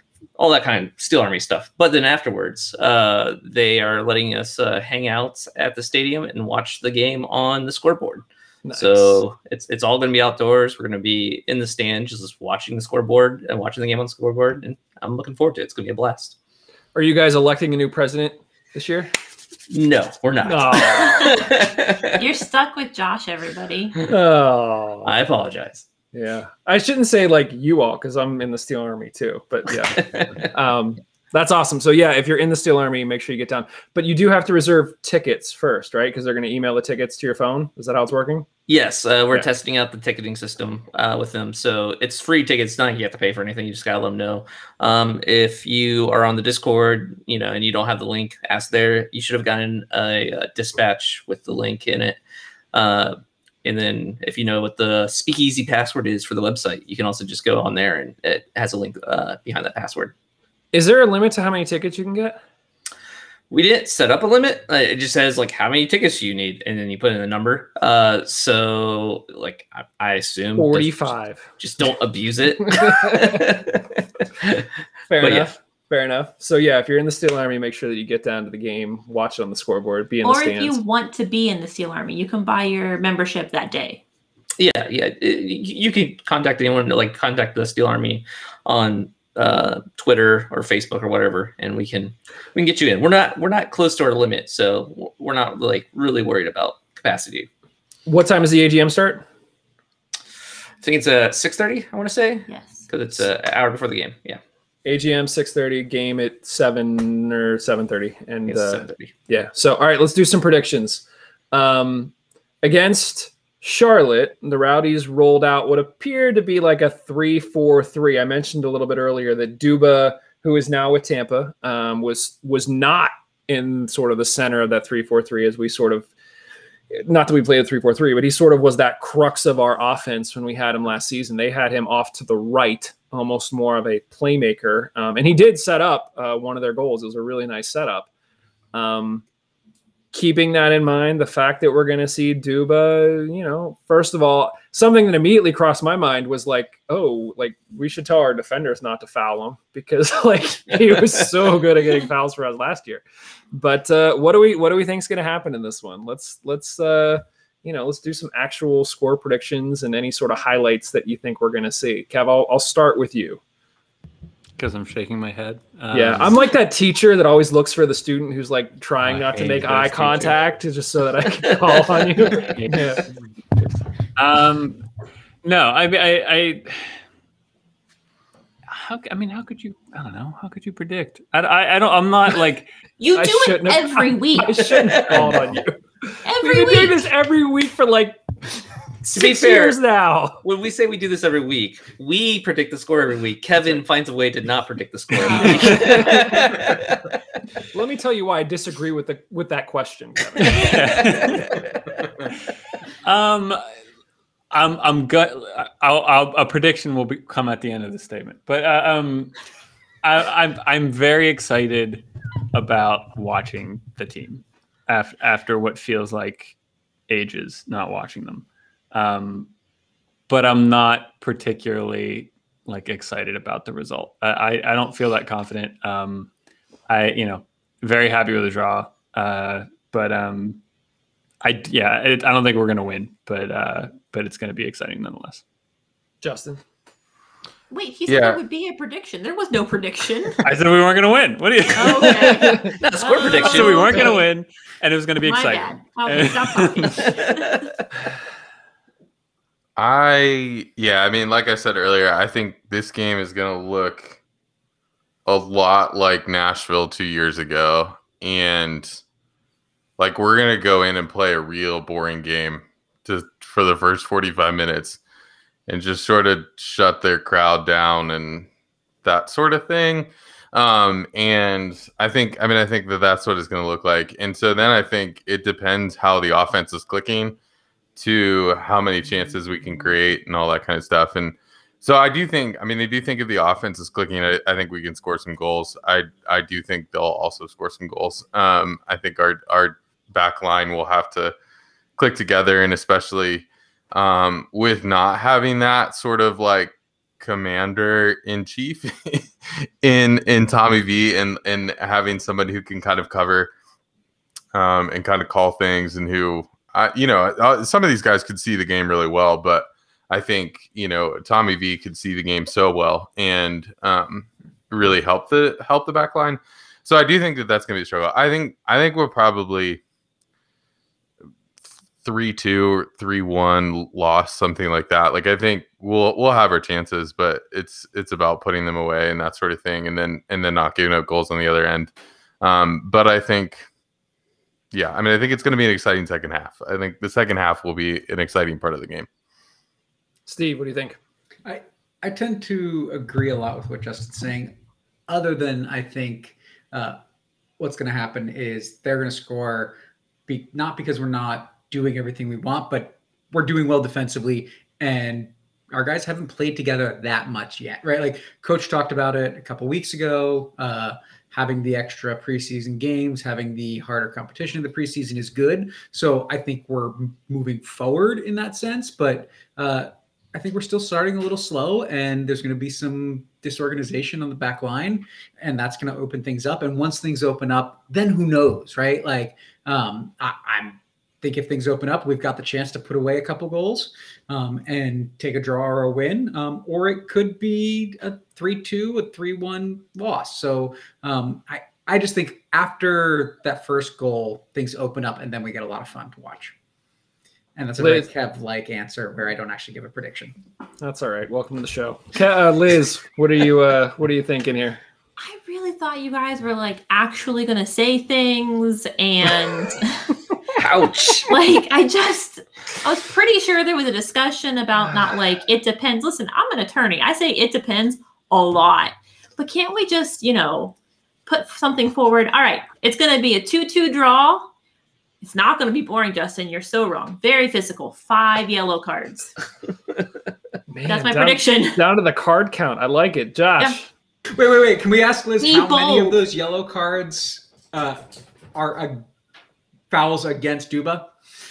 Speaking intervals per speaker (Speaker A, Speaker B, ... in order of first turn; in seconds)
Speaker A: 0.4-16.4, 19.7-22.1, 25.0-25.8, 29.9-30.5, 38.7-52.2, 52.7-60.1, 63.5-74.7, 75.2-75.5, 84.6-97.5, 100.8-104.4, 108.5-109.1, 184.7-185.1, 189.1-189.8, 190.4-197.1, 200.6-201.9, 242.7-244.1, 247.0-247.6, 410.5-411.3
Speaker B: 8.6-9.2, 16.9-19.1, 20.4-21.4, 24.1-25.1, 26.1-38.5, 60.7-62.4, 70.5-71.4, 72.6-73.4, 75.1-80.8, 98.1-99.2, 104.8-126.1, 126.9-138.1, 138.7-139.2, 140.1-163.4, 165.9-173.0, 183.2-188.2, 189.0-190.4, 195.4-196.5, 197.7-201.3, 236.2-236.6, 242.1-242.7, 340.3-341.0, 397.8-398.1, 400.8-404.8, 430.7-433.9
Speaker C: 22.1-23.9, 80.2-84.0, 102.5-102.9, 183.0-184.9, 186.2-187.0, 195.4-195.8, 237.7-240.4, 241.7-244.3, 245.2-247.7, 405.2-410.1, 411.2-420.7, 421.2-424.5, 425.2-429.3, 430.9-431.8, 435.4-436.2
Speaker D: 164.6-166.4, 169.0-170.4, 172.5-173.0, 174.2-174.8, 175.4-176.9, 178.7-182.7, 185.0-185.6, 195.2-196.1, 200.6-201.5, 203.0-203.6, 204.5-209.3, 210.0-216.6, 217.1-219.5, 220.3-226.3, 226.9-230.6, 231.4-235.4, 240.4-242.5, 243.4-247.1
Speaker E: 238.1-238.4, 249.8-254.2, 255.2-259.0, 260.0-265.0, 265.7-268.5, 269.0-277.4, 277.9-291.3, 292.0-303.5, 304.5-319.8, 322.0-333.7, 334.7-339.1
Speaker F: 341.4-344.5, 345.1-347.0, 347.6-349.8, 350.3-396.5, 397.5-400.3, 434.3-439.0, 439.9-441.1